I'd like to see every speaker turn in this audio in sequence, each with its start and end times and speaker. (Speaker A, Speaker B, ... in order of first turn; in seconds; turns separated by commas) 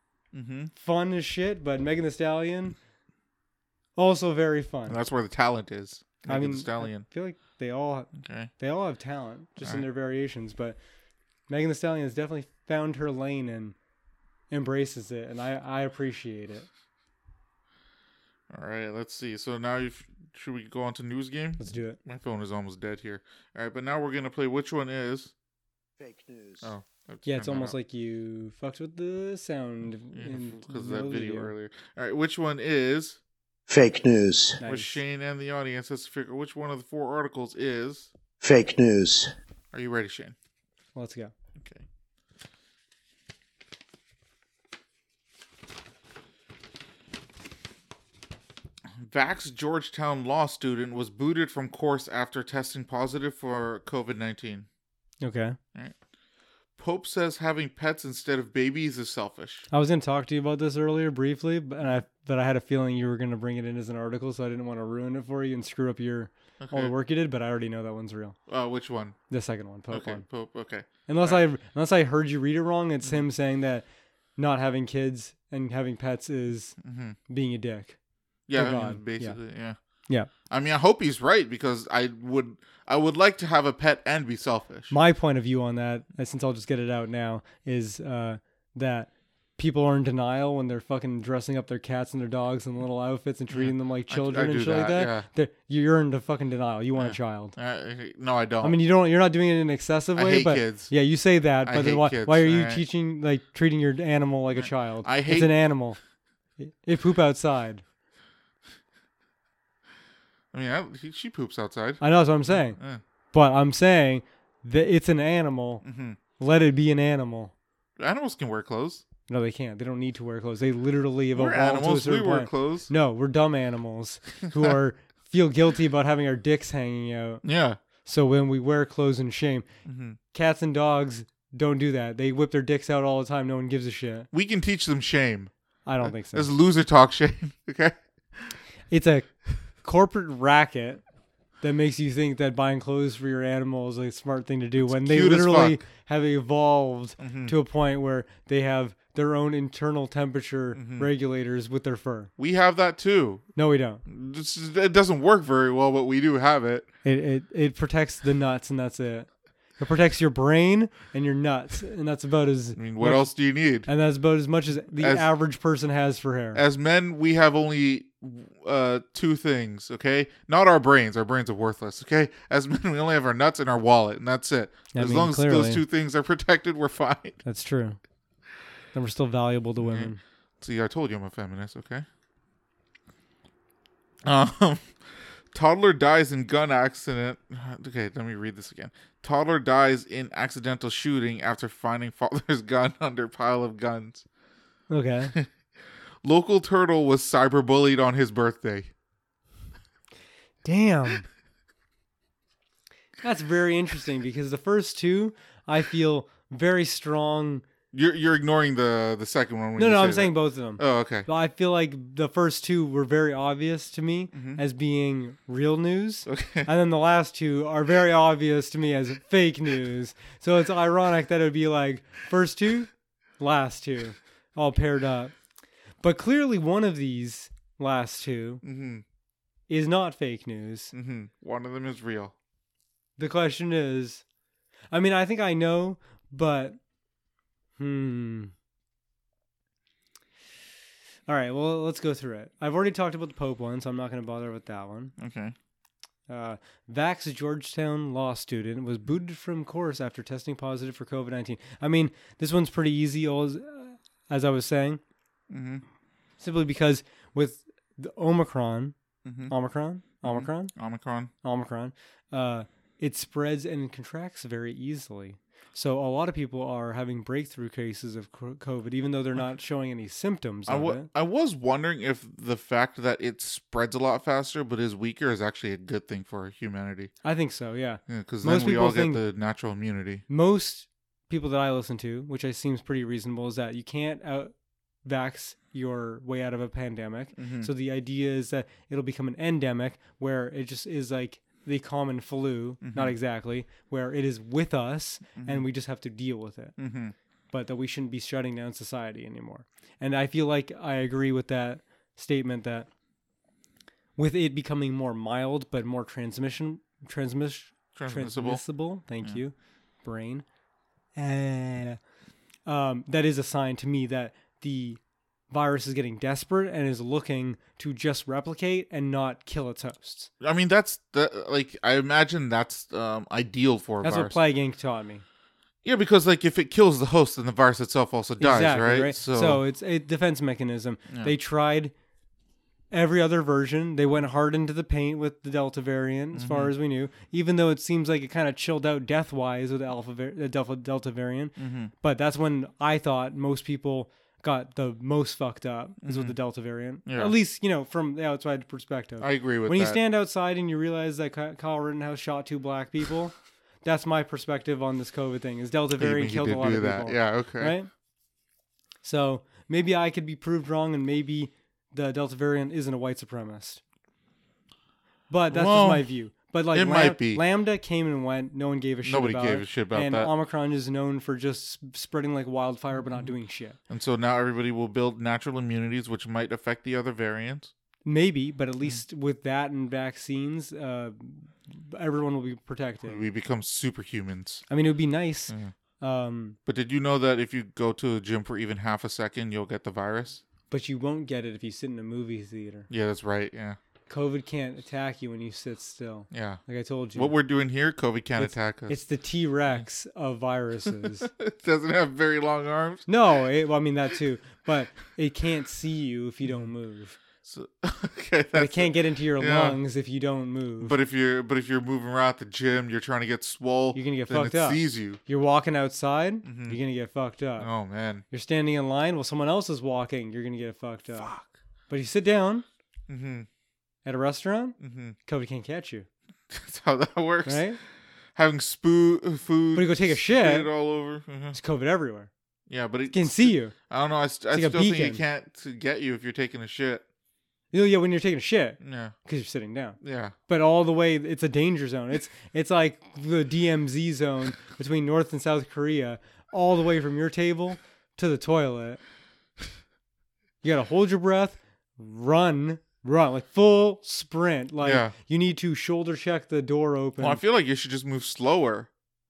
Speaker A: 0.3-0.7, Speaker B: 0.7-2.8, Speaker B: 4.0-5.0, Speaker A: 4.9-7.0, Speaker B: 6.3-10.8, Speaker A: 8.2-8.5, Speaker B: 11.5-13.7, Speaker B: 14.5-16.7, Speaker A: 18.5-25.3, Speaker B: 21.6-22.0, Speaker C: 26.0-26.7, Speaker A: 26.6-27.8, Speaker B: 27.2-31.5, Speaker A: 30.1-33.2, Speaker C: 33.7-34.6, Speaker B: 34.6-35.0, Speaker A: 34.6-38.1, Speaker C: 38.4-39.3, Speaker A: 39.7-40.3, Speaker B: 40.9-41.3, Speaker A: 41.6-41.8, Speaker A: 49.0-54.6, Speaker B: 55.2-55.6, Speaker A: 56.8-59.6, Speaker B: 59.7-68.3, Speaker A: 66.6-66.9, Speaker A: 68.5-69.2, Speaker B: 69.3-70.2, Speaker A: 69.9-71.4, Speaker B: 71.1-73.8, Speaker B: 74.4-76.8, Speaker A: 76.8-77.2, Speaker B: 77.3-78.0, Speaker A: 78.5-79.8, Speaker B: 78.5-79.4, Speaker A: 80.5-84.9, Speaker B: 84.9-97.5, Speaker A: 93.5-95.3, Speaker A: 97.0-98.8, Speaker B: 98.6-106.0, Speaker A: 100.1-100.9, Speaker A: 101.6-102.8, Speaker A: 104.5-105.5, Speaker B: 106.6-107.8, Speaker A: 110.5-113.0, Speaker B: 112.0-112.8, Speaker B: 113.3-115.8, Speaker A: 115.8-116.2, Speaker B: 116.4-117.5, Speaker A: 118.0-119.0, Speaker B: 119.3-127.4, Speaker A: 121.3-122.9, Speaker A: 127.4-127.8, Speaker B: 128.0-129.7, Speaker A: 129.8-130.2, Speaker B: 130.3-134.3, Speaker A: 134.3-135.5, Speaker B: 135.8-136.5, Speaker A: 136.0-138.5, Speaker B: 138.9-139.3, Speaker B: 139.8-141.0, Speaker B: 141.6-152.3, Speaker A: 144.8-145.8, Speaker A: 147.2-147.5, Speaker A: 150.7-151.1, Speaker A: 152.4-153.4, Speaker B: 153.6-154.0, Speaker A: 154.1-156.9, Speaker B: 157.0-163.3, Speaker A: 162.8-163.9, Speaker B: 163.8-166.6, Speaker A: 164.9-165.3, Speaker A: 166.5-177.4, Speaker B: 174.9-175.8, Speaker B: 177.4-178.0, Speaker B: 178.9-180.2, Speaker A: 179.8-182.1, Speaker A: 184.2-184.9, Speaker A: 185.5-194.2, Speaker B: 194.9-195.3, Speaker A: 196.2-198.9, Speaker B: 200.6-201.2, Speaker B: 203.2-207.6, Speaker A: 207.9-211.3, Speaker B: 209.8-225.3, Speaker A: 214.3-214.6, Speaker A: 216.3-216.7, Speaker B: 226.0-228.6, Speaker A: 228.6-229.0, Speaker B: 229.7-230.9, Speaker A: 230.9-232.3, Speaker B: 233.2-234.2, Speaker B: 234.9-236.8, Speaker B: 237.8-238.5, Speaker B: 241.3-245.1, Speaker A: 245.2-245.5, Speaker B: 246.3-255.0, Speaker A: 255.5-255.8, Speaker B: 256.4-258.9, Speaker A: 259.2-259.5, Speaker B: 259.5-260.7, Speaker A: 260.2-261.3, Speaker B: 261.4-271.1, Speaker A: 270.7-277.1, Speaker B: 277.2-279.2, Speaker A: 278.1-280.2, Speaker B: 280.3-284.5, Speaker B: 285.0-296.8, Speaker A: 287.4-287.7, Speaker A: 292.8-293.1, Speaker A: 295.4-295.6, Speaker A: 296.8-297.1, Speaker B: 297.5-302.9, Speaker B: 304.1-310.4, Speaker A: 307.9-308.6, Speaker B: 311.1-312.0, Speaker B: 312.6-315.0, Speaker B: 315.5-320.3, Speaker A: 320.4-324.4, Speaker B: 324.0-325.2, Speaker A: 325.8-329.6, Speaker B: 328.4-331.9, Speaker A: 331.1-331.3, Speaker B: 332.9-357.9, Speaker A: 336.3-336.7, Speaker A: 341.6-341.9, Speaker A: 346.0-346.4, Speaker A: 347.1-347.3, Speaker A: 349.2-350.0, Speaker A: 356.0-357.8, Speaker B: 359.0-363.8, Speaker B: 365.3-373.8, Speaker A: 365.5-366.1, Speaker A: 366.7-367.4, Speaker A: 369.0-370.3, Speaker A: 373.9-377.7, Speaker B: 378.0-383.2, Speaker A: 383.1-384.6, Speaker B: 384.7-386.6, Speaker A: 386.6-390.4, Speaker B: 390.7-392.9, Speaker A: 392.9-393.8, Speaker B: 394.1-397.3, Speaker A: 396.3-396.6, Speaker A: 397.1-399.0, Speaker B: 398.4-401.3, Speaker A: 400.9-403.1, Speaker B: 403.1-407.2, Speaker A: 407.4-409.8, Speaker B: 408.5-410.9, Speaker A: 410.8-415.2, Speaker B: 413.9-417.7, Speaker A: 416.4-416.8, Speaker A: 417.6-418.2, Speaker B: 418.3-421.3, Speaker A: 421.2-421.5, Speaker B: 421.9-422.6, Speaker A: 423.1-423.5, Speaker B: 424.0-426.1, Speaker A: 424.8-425.1, Speaker A: 426.5-427.6, Speaker B: 427.4-427.8, Speaker A: 428.4-431.6, Speaker B: 429.7-430.7, Speaker B: 431.5-432.3, Speaker A: 432.7-437.0, Speaker B: 433.1-433.7, Speaker B: 434.5-435.2, Speaker B: 437.7-449.0, Speaker A: 438.8-439.1, Speaker A: 440.0-440.3, Speaker B: 450.6-457.4, Speaker A: 454.8-455.1, Speaker A: 457.2-458.9